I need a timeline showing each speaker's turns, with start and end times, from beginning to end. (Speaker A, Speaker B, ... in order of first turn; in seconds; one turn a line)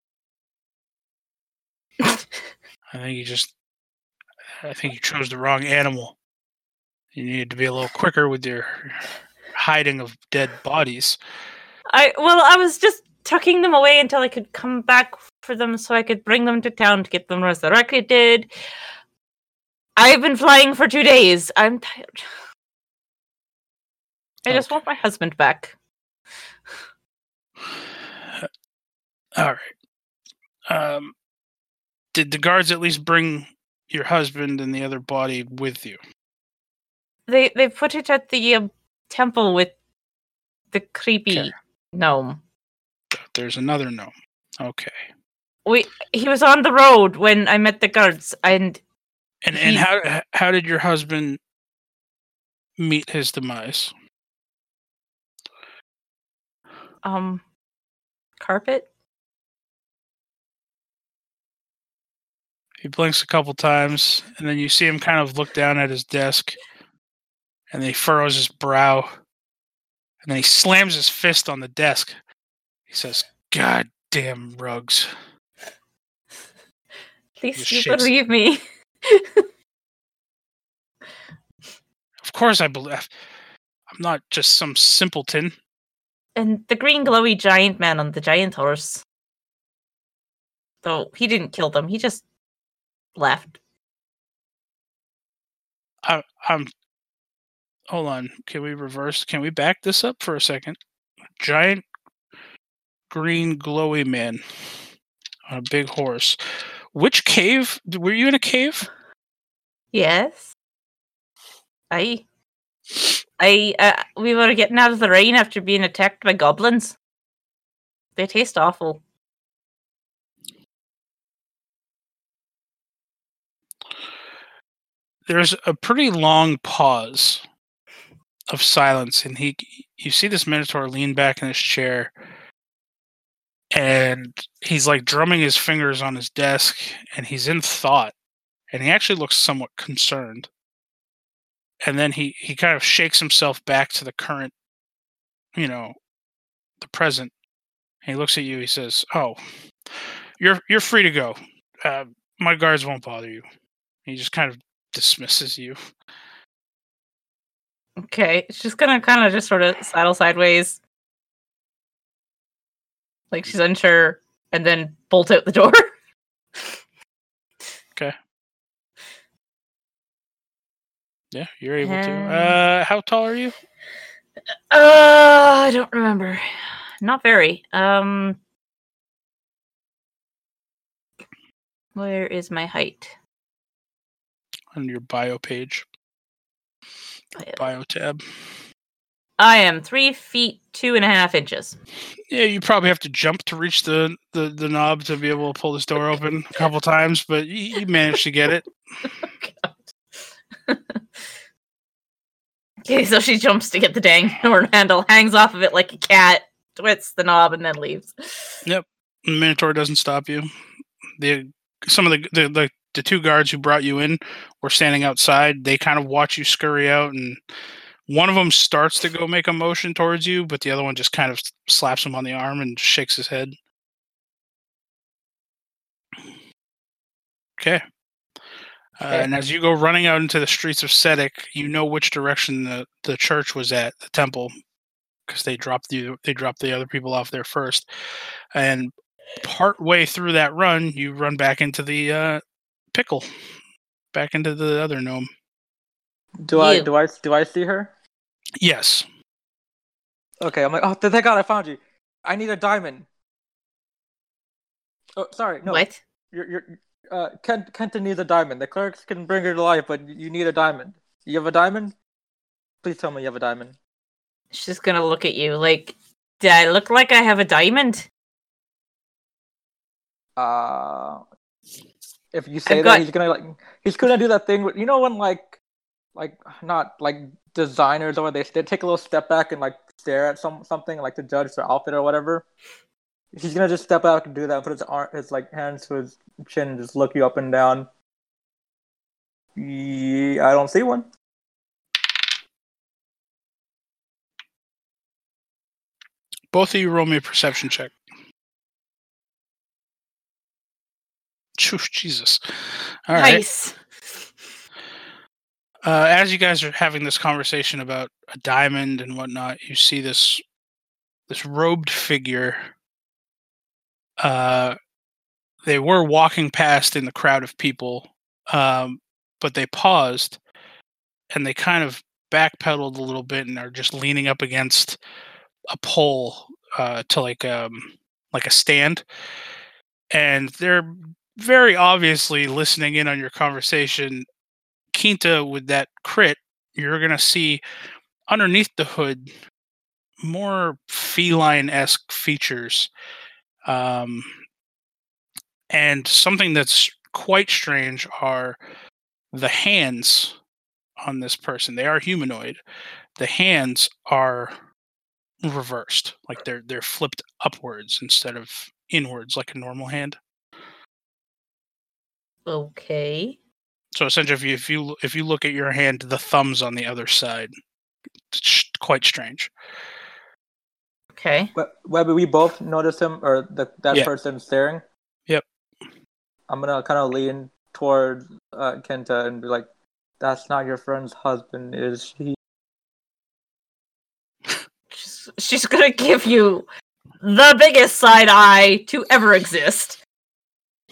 Speaker A: 2.9-3.5
Speaker A: 4.6-6.2
Speaker A: 7.1-11.2
Speaker B: 11.9-18.5
Speaker B: 20.0-22.3
Speaker B: 24.4-25.8
Speaker A: 29.4-29.7
Speaker A: 30.7-31.1
Speaker A: 32.1-36.0
Speaker B: 37.3-39.7
Speaker B: 40.7-42.4
Speaker A: 43.1-45.1
Speaker B: 45.7-48.8
Speaker A: 49.4-51.4
Speaker B: 49.5-49.9
Speaker A: 52.8-53.9
Speaker B: 57.0-57.4
Speaker B: 58.4-58.9
Speaker A: 62.8-66.6
Speaker A: 67.7-69.1
Speaker A: 70.2-72.2
Speaker A: 72.9-75.1
Speaker B: 77.4-79.4
Speaker A: 77.6-78.1
Speaker A: 82.2-83.1
Speaker A: 83.9-85.5
Speaker B: 86.4-89.0
Speaker B: 90.8-92.2
Speaker B: 93.2-93.6
Speaker A: 96.0-96.7
Speaker A: 97.9-100.8
Speaker A: 101.4-101.8
Speaker A: 103.1-104.4
Speaker A: 105.5-106.4
Speaker A: 106.9-108.9
Speaker B: 109.9-110.5
Speaker B: 111.9-112.2
Speaker B: 113.4-117.0
Speaker B: 118.2-119.0
Speaker A: 125.3-127.4
Speaker A: 128.5-132.1
Speaker A: 133.7-138.1
Speaker A: 138.7-140.5
Speaker A: 141.8-144.5
Speaker A: 145.6-145.9
Speaker A: 146.8-147.3
Speaker A: 148.0-149.4
Speaker A: 150.4-153.4
Speaker A: 154.1-155.8
Speaker B: 158.0-160.8
Speaker B: 163.3-165.9
Speaker A: 171.3-173.6
Speaker B: 171.8-172.6
Speaker B: 174.7-176.4
Speaker B: 177.0-178.4
Speaker B: 182.0-183.2
Speaker A: 184.7-185.8
Speaker B: 187.4-187.7
Speaker A: 187.6-188.2
Speaker B: 189.4-191.8
Speaker A: 192.3-198.7
Speaker B: 199.0-199.9
Speaker B: 200.7-201.0
Speaker B: 202.9-208.6
Speaker A: 208.7-210.5
Speaker A: 211.2-217.4
Speaker A: 218.1-223.6
Speaker A: 229.0-234.5
Speaker A: 235.3-237.9
Speaker A: 238.5-242.4
Speaker A: 242.9-243.3
Speaker A: 244.1-245.3
Speaker C: 246.4-247.9
Speaker B: 246.5-246.9
Speaker A: 248.6-249.1
Speaker C: 250.4-253.1
Speaker C: 255.2-261.9
Speaker B: 255.6-256.0
Speaker C: 262.8-263.8
Speaker B: 264.5-268.1
Speaker C: 270.4-271.2
Speaker C: 272.3-275.6
Speaker B: 272.7-273.1
Speaker C: 276.1-282.5
Speaker C: 283.3-287.9
Speaker C: 289.6-291.1
Speaker A: 296.5-297.9
Speaker A: 301.6-302.4
Speaker A: 303.1-303.4
Speaker B: 303.1-304.2
Speaker A: 305.8-310.4
Speaker A: 311.3-312.7
Speaker A: 314.2-314.8
Speaker A: 315.6-320.4
Speaker A: 321.3-325.0
Speaker A: 325.7-329.0
Speaker A: 330.1-334.3
Speaker A: 334.9-337.6
Speaker A: 338.3-339.3
Speaker A: 340.2-342.9
Speaker A: 343.6-344.3
Speaker A: 345.7-348.6
Speaker A: 349.3-350.4
Speaker A: 351.0-352.6
Speaker A: 353.2-354.5
Speaker A: 355.4-360.2
Speaker B: 362.5-363.4
Speaker A: 363.9-367.5
Speaker A: 368.3-369.5
Speaker B: 371.1-371.5
Speaker C: 371.6-374.8
Speaker C: 376.5-379.7
Speaker C: 380.2-382.4
Speaker B: 384.9-386.7
Speaker B: 387.2-390.0